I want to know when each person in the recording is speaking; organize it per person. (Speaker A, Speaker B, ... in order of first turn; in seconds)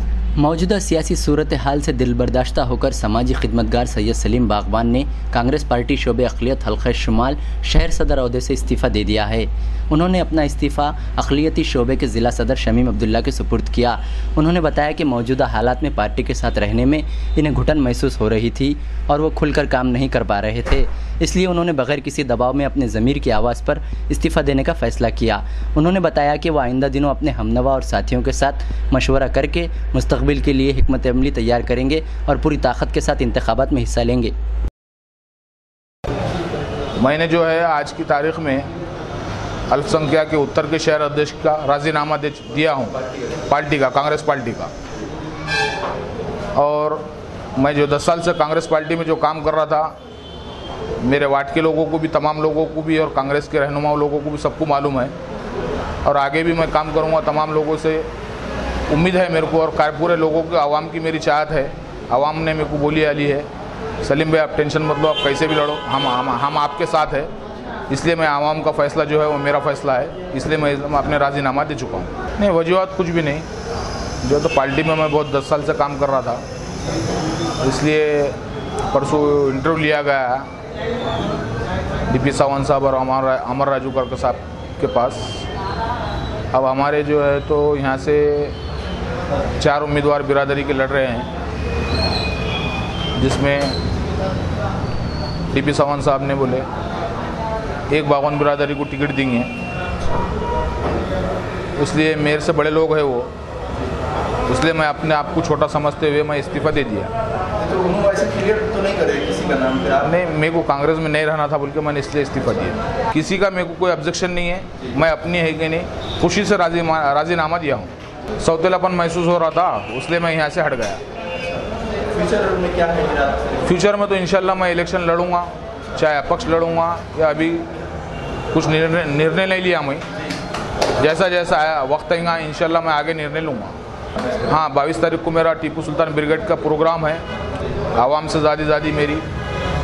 Speaker A: 0.4-34.3
Speaker B: 37.0-38.7, 39.7-44.7, 46.5-47.0, 47.6-49.9, 51.0-55.1, 56.0-58.1, 58.9-63.5, 64.0-67.3, 67.9-73.5, 74.2-76.4, 77.6-78.3, 78.9-80.5, 82.1-85.5, 86.5-88.5, 89.6-91.3, 93.2-93.8, 95.5-96.7, 97.9-99.5, 101.8-103.3, 104.5-107.1, 110.0-121.0, 123.6-127.7, 128.5-130.0, 131.0-133.7, 134.4-137.2, 137.9-139.2
Speaker C: 107.6-110.0, 122.1-123.6